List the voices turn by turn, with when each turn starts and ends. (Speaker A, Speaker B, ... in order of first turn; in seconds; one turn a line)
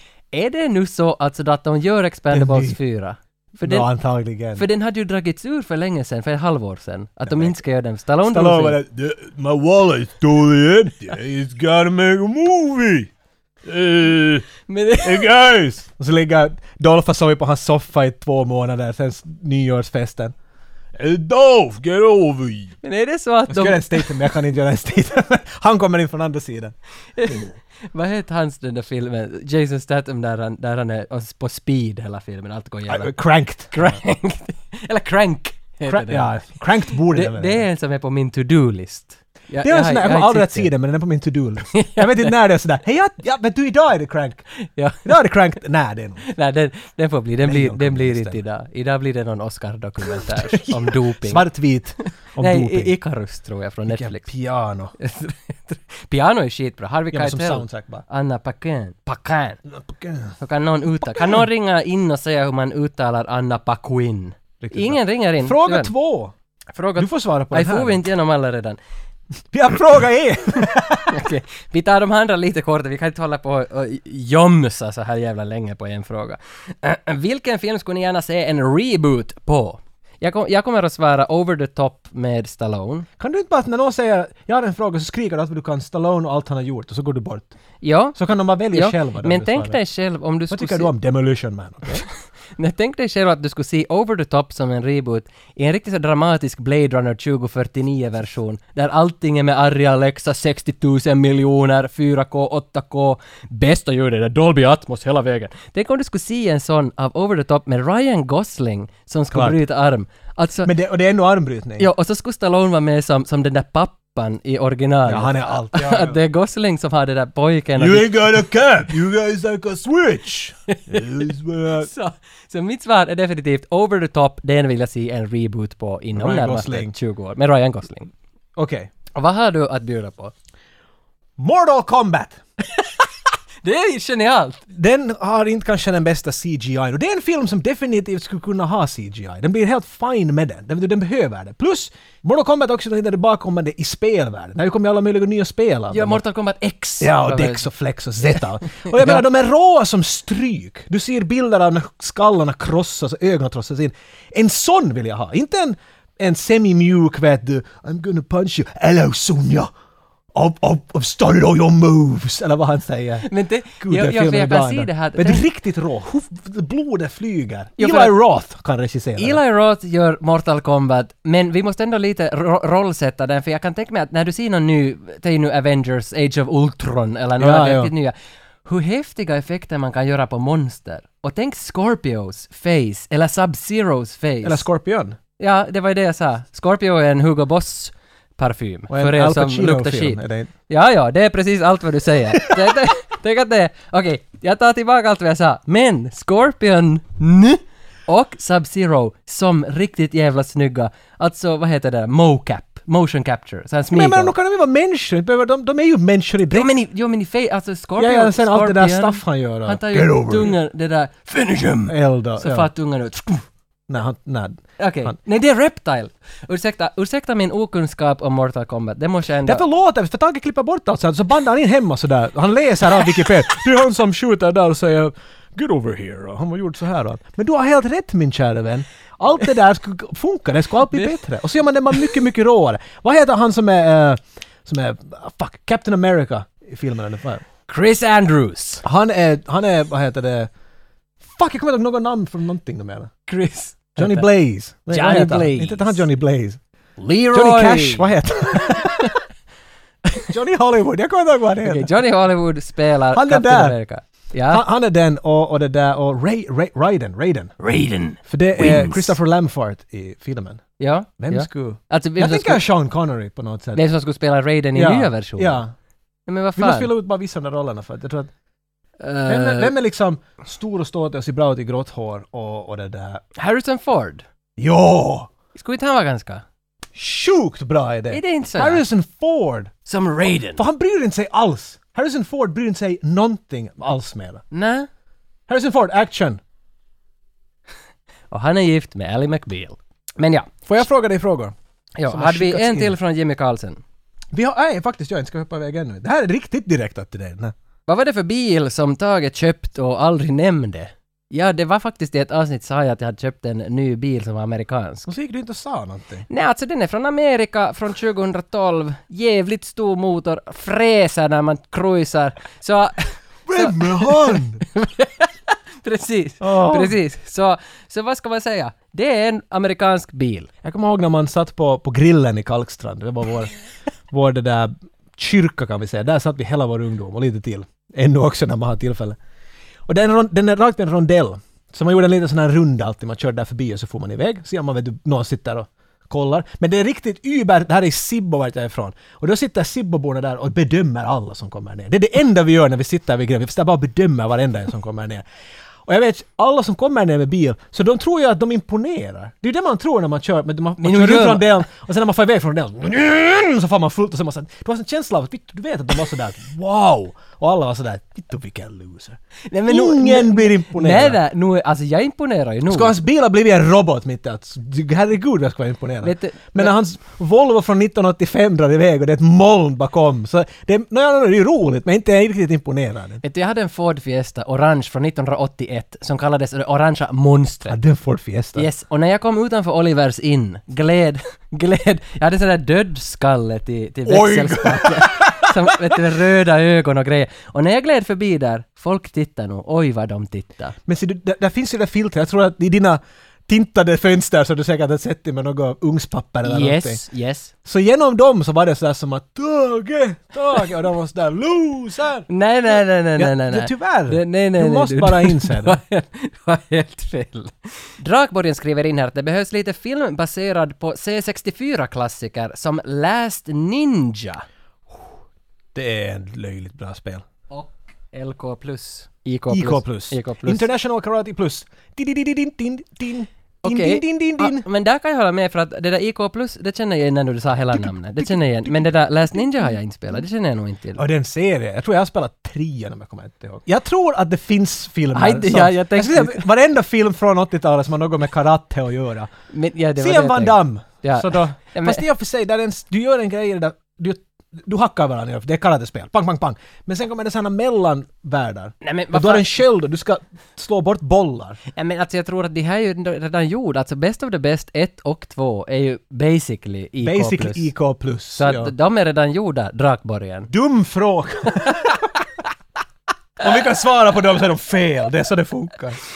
Speaker A: 0.3-3.9
Speaker B: 2.3-2.8
Speaker B: 3.6-4.6
Speaker A: 4.5-8.8
Speaker B: 7.3-7.5
Speaker B: 8.2-13.1
Speaker B: 13.6-14.4
Speaker A: 14.7-15.3
Speaker B: 15.0-20.3
Speaker B: 20.9-22.7
Speaker A: 22.8-24.1
Speaker B: 23.5-27.5
Speaker A: 27.1-33.1
Speaker B: 32.9-34.0
Speaker A: 33.7-36.3
Speaker B: 35.9-37.6
Speaker A: 37.1-40.7
Speaker B: 39.6-44.4
Speaker A: 41.7-42.3
Speaker A: 44.6-45.1
Speaker B: 45.0-46.2
Speaker A: 46.2-51.4
Speaker B: 47.4-48.4
Speaker B: 50.0-52.9
Speaker A: 52.4-54.3
Speaker B: 53.9-54.9
Speaker A: 55.0-59.6
Speaker B: 57.1-58.0
Speaker B: 59.7-60.4
Speaker A: 60.4-65.9
Speaker B: 61.0-61.4
Speaker B: 64.6-66.3
Speaker A: 66.7-68.8
Speaker B: 67.0-68.0
Speaker B: 69.5-71.3
Speaker A: 71.1-83.1
Speaker B: 83.2-87.5
Speaker A: 87.8-88.2
Speaker B: 88.1-89.8
Speaker A: 88.7-90.9
Speaker B: 90.5-92.0
Speaker A: 91.9-110.7
Speaker B: 109.3-109.6
Speaker B: 110.7-111.9
Speaker A: 111.8-118.4
Speaker B: 115.1-116.2
Speaker B: 117.8-121.9
Speaker A: 120.7-128.1
Speaker B: 126.1-126.9
Speaker B: 128.6-128.9
Speaker A: 129.1-130.3
Speaker B: 131.4-132.4
Speaker A: 132.7-133.1
Speaker A: 133.6-134.6
Speaker B: 134.7-146.2
Speaker A: 145.9-147.7
Speaker B: 147.0-159.7
Speaker A: 148.6-149.2
Speaker B: 160.3-169.4
Speaker A: 163.2-165.4
Speaker A: 167.8-168.2
Speaker A: 169.2-184.7
Speaker B: 177.4-177.9
Speaker B: 184.4-185.2
Speaker A: 185.4-204.3
Speaker B: 188.9-190.5
Speaker B: 203.9-206.7
Speaker A: 206.5-213.4
Speaker B: 208.0-210.6
Speaker B: 211.9-212.7
Speaker B: 213.9-215.2
Speaker A: 214.8-219.6
Speaker B: 219.4-237.4
Speaker A: 237.7-238.8
Speaker B: 238.8-240.5
Speaker B: 241.2-243.1
Speaker A: 243.3-244.2
Speaker B: 244.0-246.6
Speaker A: 244.9-246.0
Speaker A: 247.0-248.1
Speaker B: 247.3-249.2
Speaker A: 248.6-249.1
Speaker B: 250.3-251.9
Speaker A: 251.6-254.6
Speaker B: 253.1-253.8
Speaker B: 254.5-257.5
Speaker A: 257.6-259.1
Speaker B: 258.2-260.6
Speaker A: 260.8-262.6
Speaker B: 261.2-263.8
Speaker A: 263.7-265.6
Speaker B: 264.7-265.7
Speaker A: 266.3-266.9
Speaker B: 266.6-268.3
Speaker A: 269.0-269.7
Speaker B: 269.3-273.2
Speaker A: 273.4-274.2
Speaker B: 274.6-275.3
Speaker A: 275.5-276.4
Speaker B: 276.9-279.7
Speaker A: 278.1-278.8
Speaker A: 279.8-280.6
Speaker B: 280.6-284.4
Speaker A: 284.5-284.9
Speaker B: 285.5-286.4
Speaker A: 288.3-290.6
Speaker B: 290.6-291.5
Speaker A: 292.0-293.8
Speaker B: 292.1-293.0
Speaker B: 294.3-297.5
Speaker A: 297.9-305.1
Speaker B: 305.1-306.2
Speaker A: 306.3-320.5
Speaker B: 313.4-314.6
Speaker B: 316.4-317.0
Speaker B: 320.6-323.5
Speaker B: 324.1-329.2
Speaker B: 329.9-345.2
Speaker B: 345.9-361.2
Speaker A: 350.8-351.6
Speaker A: 359.5-362.9
Speaker B: 362.7-373.2
Speaker A: 366.0-366.7
Speaker A: 373.2-377.8
Speaker B: 377.7-378.7
Speaker A: 378.6-390.8
Speaker B: 384.1-386.0
Speaker B: 390.9-397.0
Speaker A: 396.4-397.5
Speaker B: 397.6-405.8
Speaker A: 402.3-414.4
Speaker B: 415.7-417.2
Speaker A: 417.5-420.6
Speaker B: 419.5-424.6
Speaker A: 423.6-431.0
Speaker B: 427.7-429.7
Speaker B: 430.9-439.3
Speaker A: 435.1-436.5
Speaker A: 439.5-442.0
Speaker B: 440.0-451.6
Speaker A: 448.8-449.6
Speaker A: 451.7-457.7
Speaker B: 457.0-458.7
Speaker A: 458.4-460.5
Speaker B: 460.5-462.1
Speaker B: 463.4-466.0